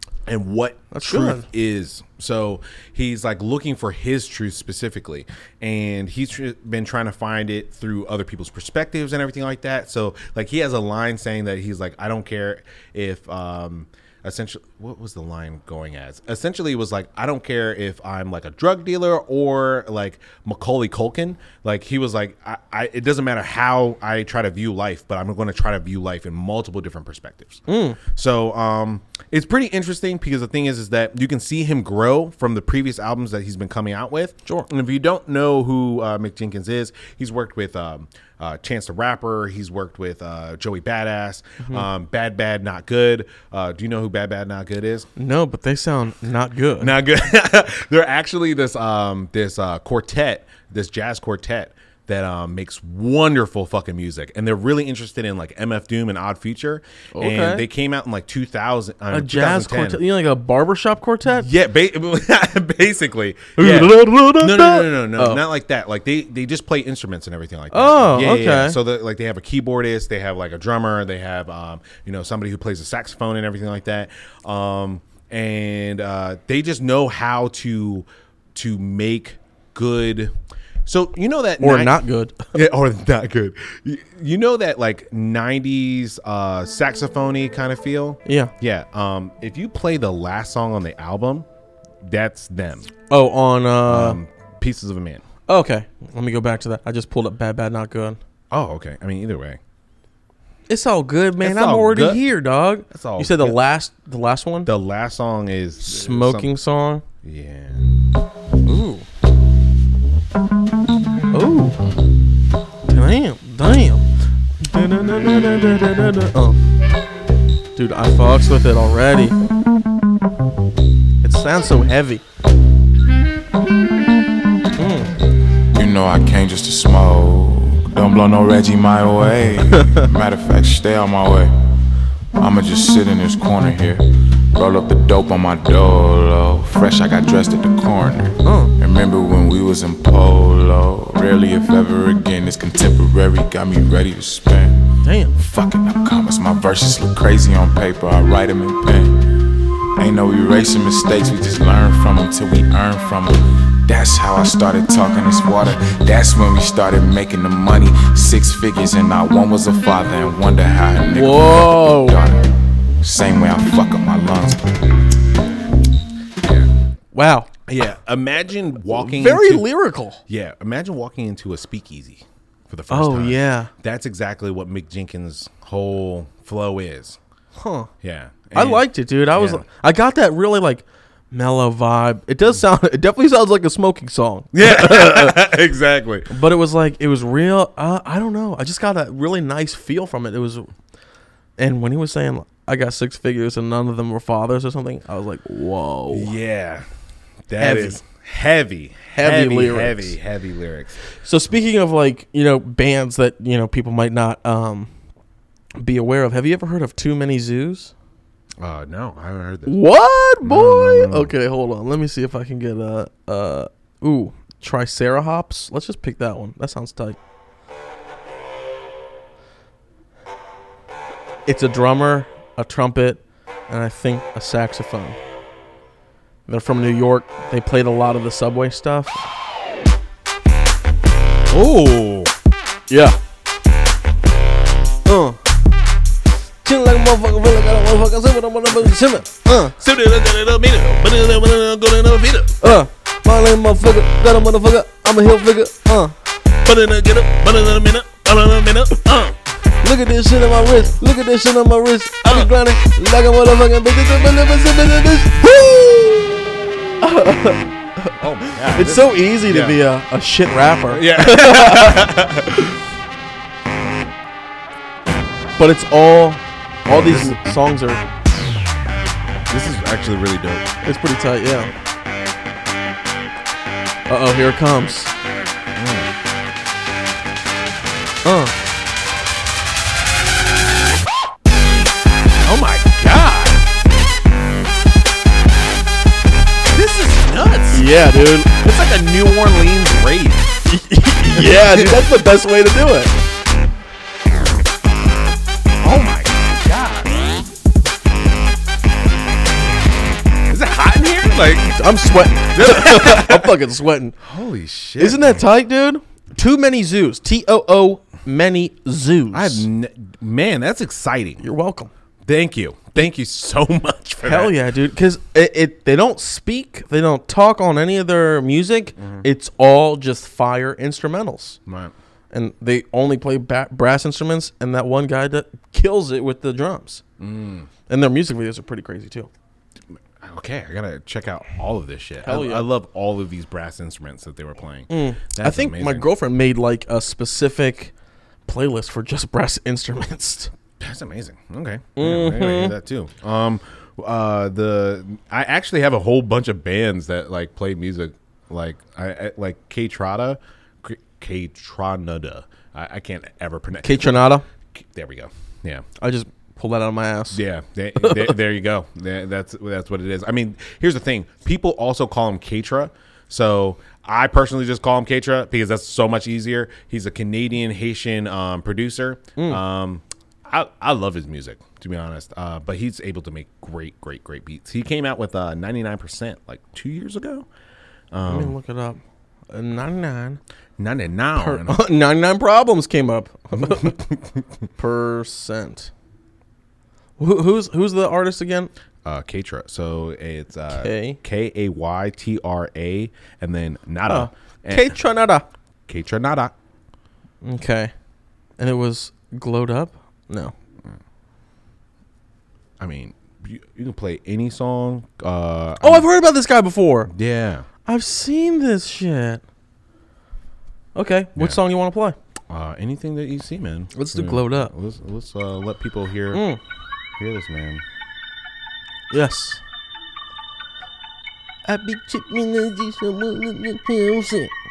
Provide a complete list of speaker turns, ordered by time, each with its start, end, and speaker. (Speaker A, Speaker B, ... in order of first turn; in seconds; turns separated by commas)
Speaker A: 0.3-45.1, Speaker B: 0.9-1.5, Speaker B: 27.7-28.0, Speaker B: 41.6-41.9, Speaker B: 45.2-46.9, Speaker A: 46.8-60.0, Speaker B: 57.2-57.6, Speaker B: 59.1-61.5, Speaker A: 61.4-80.3, Speaker B: 63.6-65.4, Speaker B: 67.7-68.8, Speaker A: 80.9-82.0, Speaker B: 81.6-82.5, Speaker A: 82.5-91.5, Speaker B: 88.2-88.5, Speaker A: 92.0-92.9, Speaker B: 93.1-94.2, Speaker A: 93.9-95.2, Speaker B: 95.5-98.2, Speaker A: 98.5-99.6, Speaker B: 100.7-104.7, Speaker A: 101.4-102.2, Speaker A: 102.9-103.6, Speaker A: 104.7-106.5, Speaker B: 105.8-107.0, Speaker A: 107.2-107.9, Speaker B: 108.7-109.0, Speaker B: 111.3-111.8, Speaker B: 112.8-114.1, Speaker B: 114.6-116.6, Speaker B: 117.8-119.4, Speaker B: 121.2-122.2, Speaker B: 124.8-125.1, Speaker C: 125.7-131.5, Speaker B: 129.7-130.1, Speaker C: 132.4-144.7, Speaker B: 138.4-138.7, Speaker B: 145.0-145.3, Speaker C: 145.4-162.5, Speaker B: 161.1-162.2, Speaker C: 163.0-164.7, Speaker A: 166.4-166.7, Speaker B: 167.1-167.5, Speaker A: 167.7-169.7, Speaker B: 168.9-170.2, Speaker A: 170.3-177.2, Speaker B: 172.9-173.7, Speaker B: 177.6-177.9, Speaker A: 178.0-179.7, Speaker B: 178.5-185.5, Speaker A: 184.5-186.3, Speaker B: 186.3-190.7, Speaker B: 191.6-196.3, Speaker A: 196.1-196.9, Speaker A: 197.5-201.0, Speaker B: 197.6-198.0, Speaker B: 199.2-200.1, Speaker B: 201.2-204.9, Speaker B: 205.8-207.9, Speaker A: 208.6-209.8, Speaker B: 209.7-217.2, Speaker A: 210.4-211.3, Speaker B: 221.5-225.2, Speaker B: 226.5-229.2, Speaker A: 231.5-232.3, Speaker B: 232.9-233.2, Speaker B: 235.1-235.4, Speaker B: 236.6-239.8, Speaker A: 239.8-242.7, Speaker B: 242.6-246.2, Speaker A: 246.6-249.4, Speaker B: 249.8-256.3, Speaker A: 252.2-252.5, Speaker B: 257.0-262.1, Speaker A: 258.2-259.8, Speaker A: 260.9-262.7, Speaker B: 265.6-268.0, Speaker A: 266.9-267.4, Speaker A: 269.5-270.7, Speaker B: 270.8-271.7, Speaker B: 274.1-275.1, Speaker A: 275.8-276.1, Speaker B: 278.2-278.6, Speaker A: 282.4-283.6, Speaker A: 286.7-287.9, Speaker B: 287.7-288.5, Speaker A: 288.5-290.6, Speaker B: 290.7-293.1, Speaker A: 291.3-292.1, Speaker A: 295.8-297.4, Speaker A: 300.5-301.8, Speaker B: 301.8-304.2, Speaker A: 302.5-303.6, Speaker A: 304.2-305.4, Speaker B: 305.0-309.7, Speaker A: 309.3-311.4, Speaker B: 311.4-311.9, Speaker A: 312.3-314.6, Speaker B: 314.2-321.6, Speaker A: 319.0-319.3, Speaker A: 321.7-321.9, Speaker B: 322.3-327.0, Speaker A: 327.2-327.7, Speaker B: 327.9-329.3, Speaker A: 330.2-336.1, Speaker B: 332.2-332.7, Speaker B: 334.9-337.9, Speaker B: 338.5-340.5, Speaker A: 340.8-355.9, Speaker B: 342.0-342.8, Speaker B: 353.8-354.5, Speaker B: 356.0-357.4, Speaker A: 357.3-377.5, Speaker B: 358.0-358.3, Speaker B: 369.4-369.6, Speaker A: 378.1-378.6, Speaker B: 378.3-379.0, Speaker B: 379.5-380.4, Speaker A: 380.8-381.8, Speaker B: 381.4-384.0, Speaker A: 383.6-384.4, Speaker B: 384.8-385.9, Speaker B: 387.2-388.7, Speaker A: 389.1-395.0, Speaker B: 390.7-391.2, Speaker B: 394.1-395.5, Speaker A: 395.9-396.5, Speaker B: 397.4-397.9, Speaker B: 398.6-400.5, Speaker A: 402.8-406.1, Speaker B: 405.8-407.1, Speaker A: 407.1-407.7, Speaker B: 407.9-409.4, Speaker B: 410.9-412.2, Speaker A: 412.5-416.4, Speaker B: 413.9-414.7, Speaker B: 416.3-416.6, Speaker A: 417.2-417.8, Speaker B: 419.1-419.6, Speaker B: 421.7-424.5